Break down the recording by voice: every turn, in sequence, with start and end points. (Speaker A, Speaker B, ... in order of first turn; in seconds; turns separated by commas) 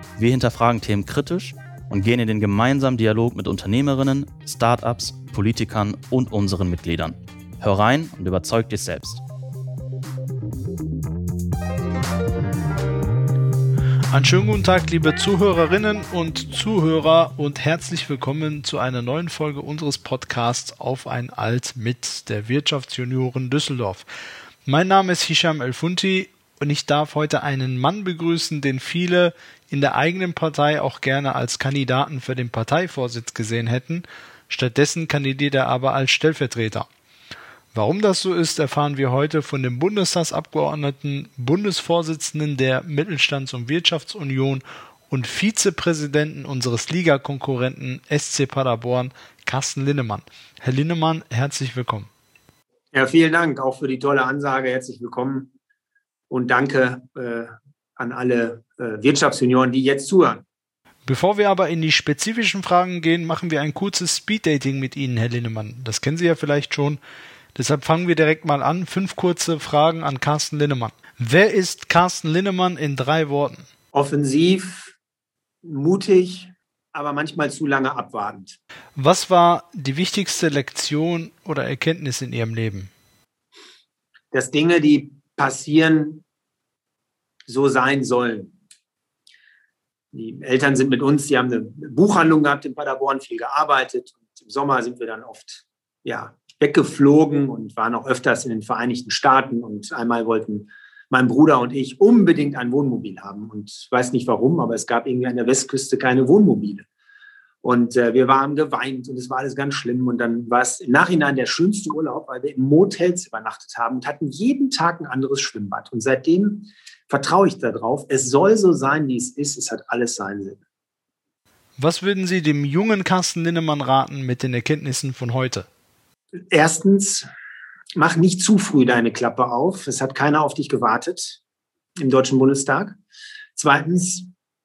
Speaker A: 0.2-9.2, Speaker B: 14.1-24.1, Speaker B: 24.6-36.9, Speaker B: 37.7-52.1, Speaker C: 52.9-55.5, Speaker C: 56.3-60.4, Speaker B: 61.0-67.0, Speaker B: 67.5-73.7, Speaker C: 73.9-74.9, Speaker C: 75.6-78.6, Speaker B: 79.0-82.9, Speaker C: 84.3-86.2, Speaker C: 87.5-88.5, Speaker C: 90.1-106.9, Speaker C: 107.6-120.6, Speaker B: 121.8-125.7, Speaker C: 126.5-127.3, Speaker C: 128.0-131.4, Speaker C: 132.0-132.9, Speaker C: 133.6-134.3